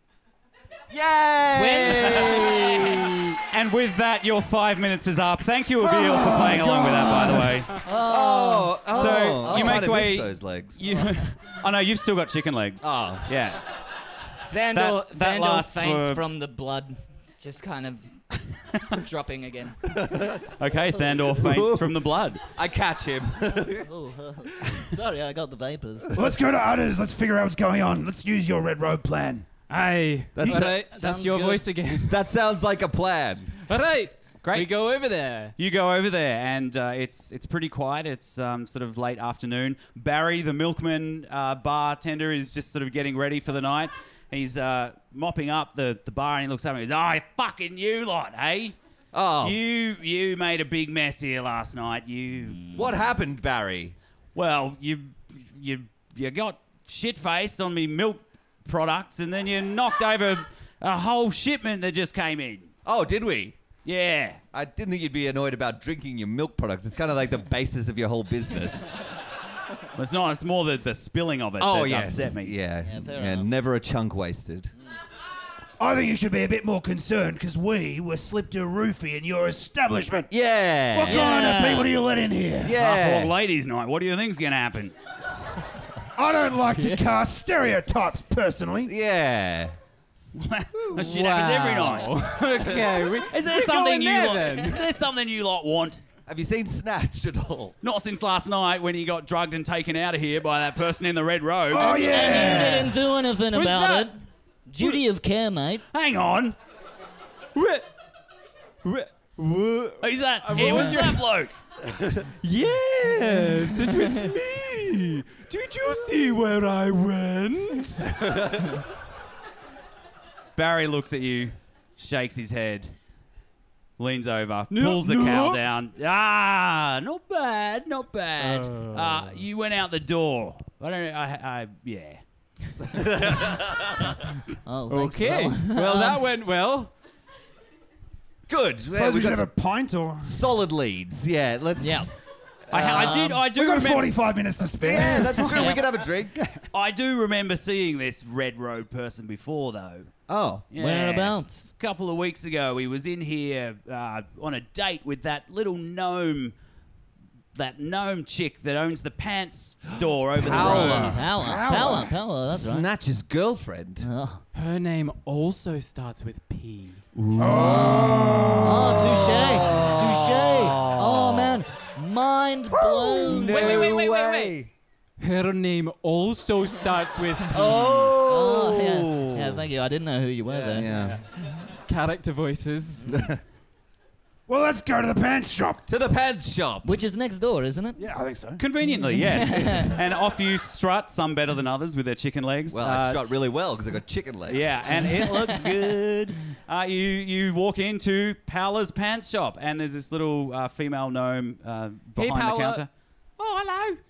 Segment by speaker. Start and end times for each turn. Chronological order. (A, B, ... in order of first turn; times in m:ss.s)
0:00.9-0:03.4 A
0:01.5-0:03.0 B
0:02.0-0:02.6 C
0:03.5-0:07.9 C
0:05.8-0:07.7 D
0:07.8-0:10.0 B
0:07.9-0:10.8 A
0:08.9-0:13.7 C
0:10.8-0:11.3 B
0:12.8-0:13.3 A
0:14.4-0:19.8 B
0:14.7-0:16.2 C
0:18.6-0:19.0 C
0:19.9-0:20.5 A
0:20.6-0:22.4 C
0:21.3-0:23.9 A
0:23.8-0:26.2 B
0:26.2-0:29.5 D
0:29.7-0:32.3 E
0:30.4-0:30.8 A
0:30.7-0:31.6 B
0:32.1-0:33.6 A
0:33.6-0:35.5 E
0:34.4-0:34.7 C
0:35.6-0:48.8 C
0:49.1-0:49.6 A
0:49.4-0:52.6 C
0:52.6-0:52.9 B
0:52.7-0:54.0 A
0:54.4-1:02.7 C
1:02.8-1:03.6 A
1:03.8-1:04.4 C
1:04.5-1:08.9 A
1:10.0-1:12.6 C
1:11.6-1:14.7 A
1:12.8-1:13.5 B
1:15.8-1:20.3 D
1:20.3-1:21.3 A
1:20.9-1:22.8 D
1:21.0-1:21.9 B
1:22.6-1:23.3 A
1:22.8-1:25.0 C
1:26.2-1:28.9 D
1:28.9-1:29.8 A
1:30.4-1:32.2 C
1:30.9-1:35.0 E
1:33.3-1:36.0 C
1:36.3-1:37.8 A
1:37.8-1:42.6 C
1:41.7-1:43.0 D
1:41.8-1:45.8 B
1:43.5-1:44.1 E
1:45.9-1:46.6 C
1:47.6-1:47.8 E
1:48.8-1:51.3 E
1:50.0-1:51.5 C
1:52.4-1:58.7 E
1:53.8-1:54.2 B
2:00.6-2:02.9 C
2:04.0-2:12.2 C
2:04.7-2:05.6 E
2:08.4-2:09.4 E
2:12.8-2:14.2 A
2:14.5-2:16.2 B
2:14.9-2:16.9 E
2:18.5-2:19.5 A
2:18.9-2:20.4 D
2:20.2-2:22.2 A
2:21.8-2:22.2 B
2:22.7-2:24.1 C
2:22.7-2:23.1 A
2:22.8-2:26.6 D
2:24.8-2:26.4 A
2:25.4-2:25.8 B
2:26.7-2:30.1 C
2:30.3-2:30.7 A
2:30.7-2:36.6 C
2:30.8-2:31.7 B
2:37.6-2:41.2 C
2:40.4-2:41.3 A
2:40.6-2:42.9 B
2:40.7-2:42.2 D
2:42.5-2:44.1 A
2:44.0-2:44.4 B
2:44.5-2:47.1 E
2:47.2-2:51.6 A
2:47.4-2:49.3 D
2:47.5-2:53.9 B
2:52.7-2:54.7 A
2:53.3-2:54.6 E
2:55.2-2:58.2 E
2:57.5-2:59.7 A
2:58.2-3:01.1 B
3:00.5-3:01.3 E
3:00.7-3:01.2 A
3:01.8-3:03.2 E
3:03.1-3:03.4 A
3:04.5-3:05.8 D
3:05.9-3:07.0 A
3:06.8-3:08.0 B
3:08.0-3:08.6 D
3:08.6-3:13.3 C
3:09.2-3:10.0 B
3:12.7-3:14.8 A
3:14.5-3:24.0 C
3:15.1-3:15.8 B
3:22.2-3:22.8 E